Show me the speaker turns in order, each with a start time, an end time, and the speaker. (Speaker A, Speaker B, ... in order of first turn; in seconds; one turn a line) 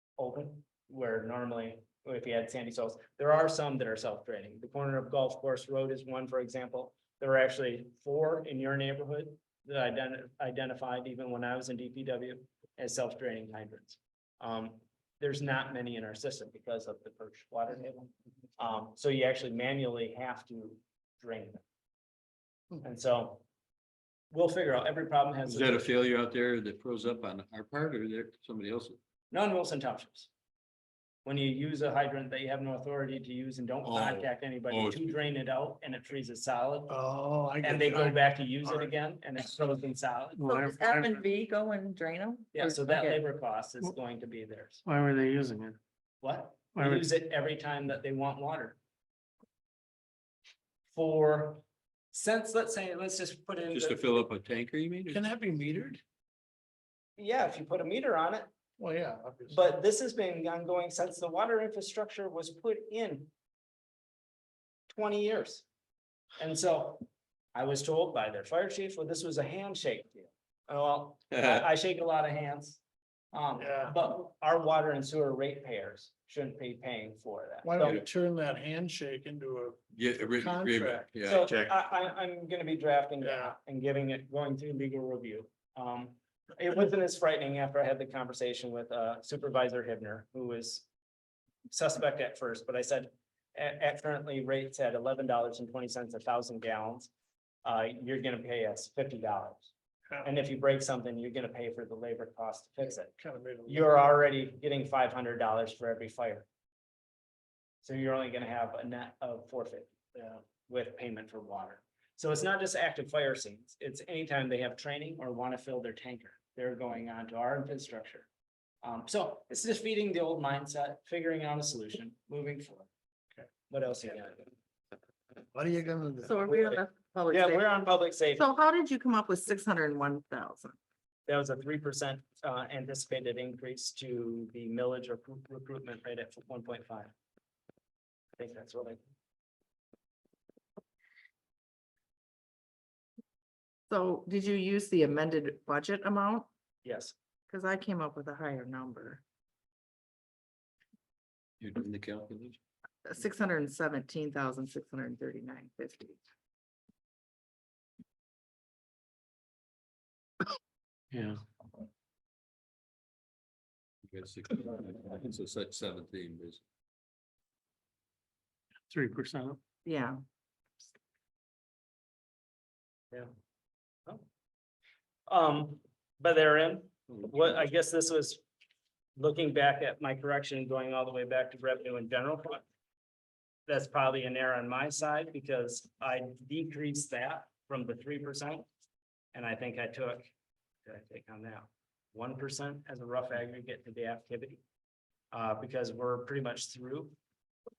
Speaker A: 0.2-21.6
Speaker A: 22.8-23.4
Speaker A: 24.3-25.9
Speaker B: 25.4-29.0
Speaker A: 29.3-30.3
Speaker A: 31.2-36.9
Speaker B: 33.8-35.2
Speaker C: 36.9-38.9
Speaker A: 37.6-40.4
Speaker D: 40.4-41.1
Speaker E: 40.5-43.2
Speaker A: 42.5-44.8
Speaker D: 44.9-45.8
Speaker A: 46.2-48.8
Speaker D: 46.7-47.0
Speaker A: 50.9-54.2
Speaker B: 53.7-55.2
Speaker C: 55.1-56.0
Speaker A: 57.2-58.5
Speaker C: 58.8-59.6
Speaker A: 59.5-63.3
Speaker A: 64.9-65.6
Speaker A: 66.4-72.8
Speaker B: 71.3-71.7
Speaker A: 73.3-78.0
Speaker C: 73.6-74.0
Speaker C: 77.6-79.8
Speaker B: 79.9-81.7
Speaker C: 80.4-81.1
Speaker A: 81.2-90.8
Speaker C: 83.2-83.5
Speaker A: 91.7-97.1
Speaker A: 97.6-99.7
Speaker A: 100.2-103.1
Speaker C: 103.2-103.9
Speaker A: 103.7-106.5
Speaker A: 107.8-118.3
Speaker A: 118.8-122.9
Speaker A: 123.7-124.5
Speaker C: 125.5-126.4
Speaker E: 126.2-127.6
Speaker A: 126.5-128.4
Speaker E: 128.3-130.8
Speaker A: 131.3-137.1
Speaker A: 138.3-139.0
Speaker E: 143.9-146.5
Speaker A: 146.8-147.1
Speaker E: 147.5-149.2
Speaker B: 151.6-152.6
Speaker E: 153.0-156.2
Speaker D: 161.1-161.4
Speaker B: 164.1-166.6
Speaker D: 168.9-169.6
Speaker E: 169.8-170.2
Speaker A: 175.3-178.4
Speaker A: 179.2-182.6
Speaker A: 183.7-188.7
Speaker A: 189.3-190.3
Speaker A: 190.8-194.6
Speaker A: 195.3-197.2